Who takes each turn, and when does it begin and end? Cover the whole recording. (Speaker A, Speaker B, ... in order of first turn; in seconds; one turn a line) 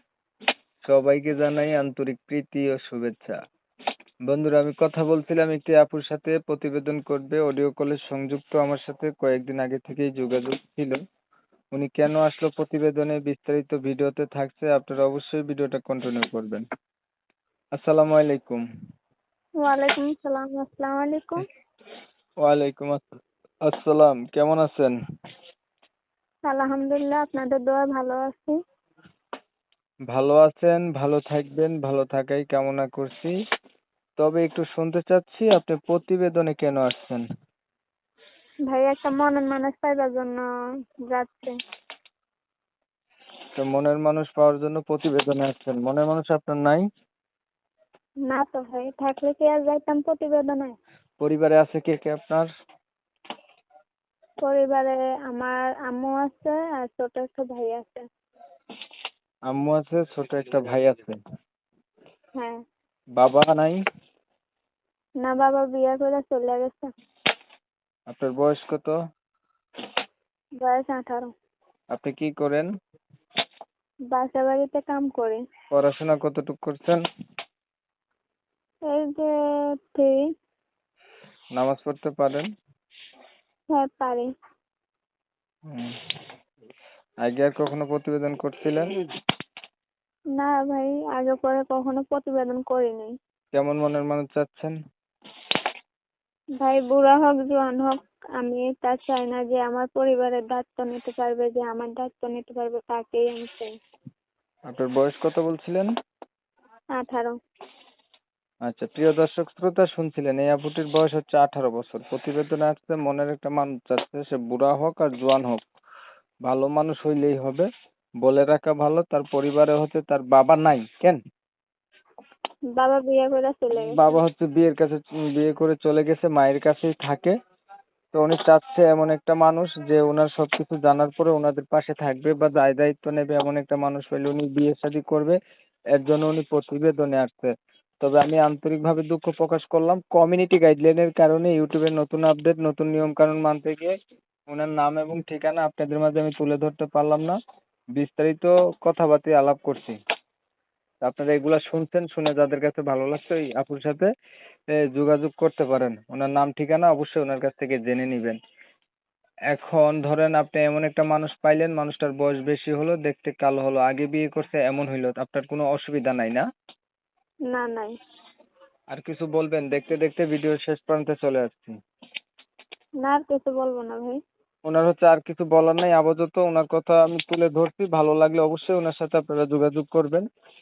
Speaker A: 0.8-3.4
Speaker A: 4.2-11.0
Speaker A: 11.7-16.6
Speaker A: 17.8-18.6
Speaker B: 19.6-21.4
Speaker A: 22.4-24.9
Speaker B: 26.5-28.6
Speaker A: 30.1-33.3
Speaker A: 34.2-37.2
Speaker B: 38.7-40.4
Speaker B: 41.0-41.6
Speaker A: 43.5-46.9
Speaker B: 48.3-50.8
Speaker A: 51.2-52.5
Speaker B: 54.4-58.0
Speaker A: 59.5-61.2
Speaker A: 63.2-63.8
Speaker B: 65.2-66.9
Speaker A: 68.1-68.9
Speaker B: 70.6-71.3
Speaker A: 71.9-72.7
Speaker B: 74.1-75.4
Speaker A: 75.7-77.0
Speaker B: 78.9-79.3
Speaker B: 79.9-80.2
Speaker A: 81.5-82.5
Speaker B: 83.7-84.3
Speaker A: 85.7-86.1
Speaker A: 87.2-89.0
Speaker B: 90.3-93.1
Speaker A: 93.5-94.7
Speaker B: 96.6-103.7
Speaker A: 104.7-105.9
Speaker B: 107.0-107.4
Speaker A: 108.6-115.6
Speaker A: 116.4-117.7
Speaker A: 118.2-121.2
Speaker B: 122.7-124.2
Speaker A: 123.8-127.3
Speaker A: 128.1-135.4
Speaker A: 135.9-143.9
Speaker A: 144.5-147.4
Speaker A: 147.9-150.0
Speaker A: 151.0-154.1
Speaker A: 154.7-158.4
Speaker A: 159.5-166.5
Speaker B: 167.5-168.0
Speaker A: 168.9-171.8
Speaker B: 173.0-174.2
Speaker A: 174.6-180.2